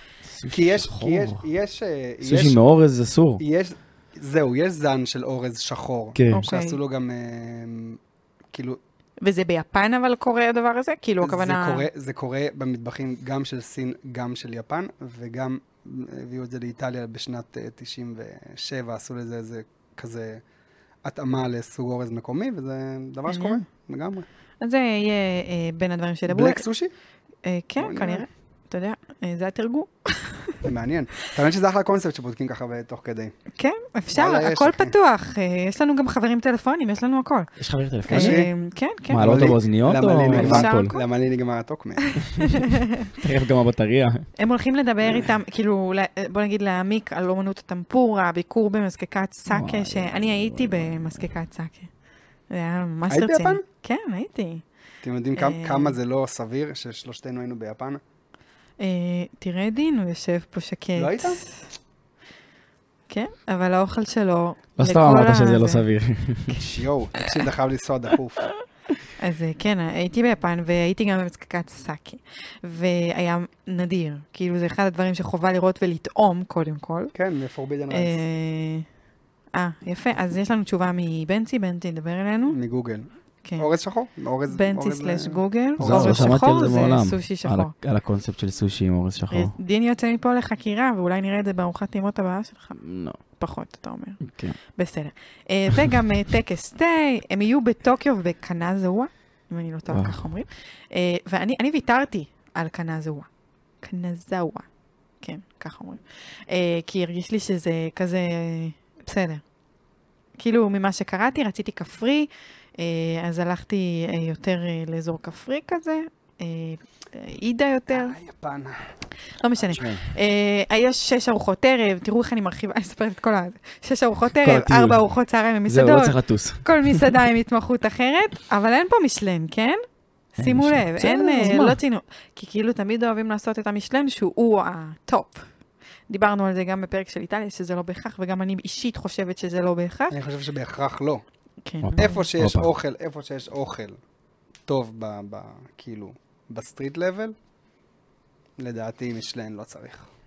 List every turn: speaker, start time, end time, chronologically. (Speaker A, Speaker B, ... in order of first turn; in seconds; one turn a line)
Speaker A: 0.3-1.4
Speaker B: 0.5-2.6
Speaker A: 2.2-3.4
Speaker B: 3.4-8.0
Speaker A: 6.2-6.4
Speaker C: 6.3-6.8
Speaker B: 8.5-8.8
Speaker C: 9.2-11.9
Speaker B: 11.2-20.4
Speaker B: 21.0-24.2
Speaker C: 23.3-23.6
Speaker C: 24.6-26.6
Speaker B: 26.3-26.9
Speaker C: 27.4-30.6
Speaker B: 27.8-28.3
Speaker B: 30.6-33.3
Speaker C: 33.5-37.5
Speaker B: 34.1-34.9
Speaker A: 37.6-38.4
Speaker B: 38.1-38.5
Speaker C: 38.1-39.4
Speaker A: 39.1-40.9
Speaker B: 39.1-42.2
Speaker C: 40.3-41.0
Speaker C: 42.1-43.1
Speaker A: 43.0-44.3
Speaker C: 44.4-51.9
Speaker A: 49.5-51.3
Speaker C: 52.5-54.6
Speaker B: 53.1-53.6
Speaker B: 55.0-58.0
Speaker C: 55.4-56.0
Speaker C: 58.8-61.7
Speaker B: 61.0-61.4
Speaker C: 63.1-65.8
Speaker A: 64.8-66.7
Speaker B: 66.6-68.5
Speaker C: 69.2-77.1
Speaker B: 77.1-78.2
Speaker C: 77.9-78.8
Speaker C: 79.5-82.6
Speaker B: 82.5-86.4
Speaker C: 83.4-83.7
Speaker C: 84.5-87.7
Speaker A: 85.8-89.5
Speaker C: 89.3-92.8
Speaker A: 92.8-93.2
Speaker C: 93.4-94.2
Speaker A: 94.2-94.6
Speaker C: 94.7-103.3
Speaker A: 99.9-100.3
Speaker C: 103.8-104.7
Speaker C: 105.2-109.4
Speaker C: 110.4-118.2
Speaker B: 117.9-118.8
Speaker C: 119.4-129.8
Speaker A: 119.8-120.1
Speaker A: 124.4-125.1
Speaker A: 125.7-127.1
Speaker A: 130.4-131.8
Speaker C: 130.4-135.4
Speaker C: 136.1-140.2
Speaker B: 140.1-141.2
Speaker C: 141.6-142.2
Speaker A: 141.8-142.7
Speaker B: 142.0-144.0
Speaker B: 144.7-147.3
Speaker B: 148.6-150.1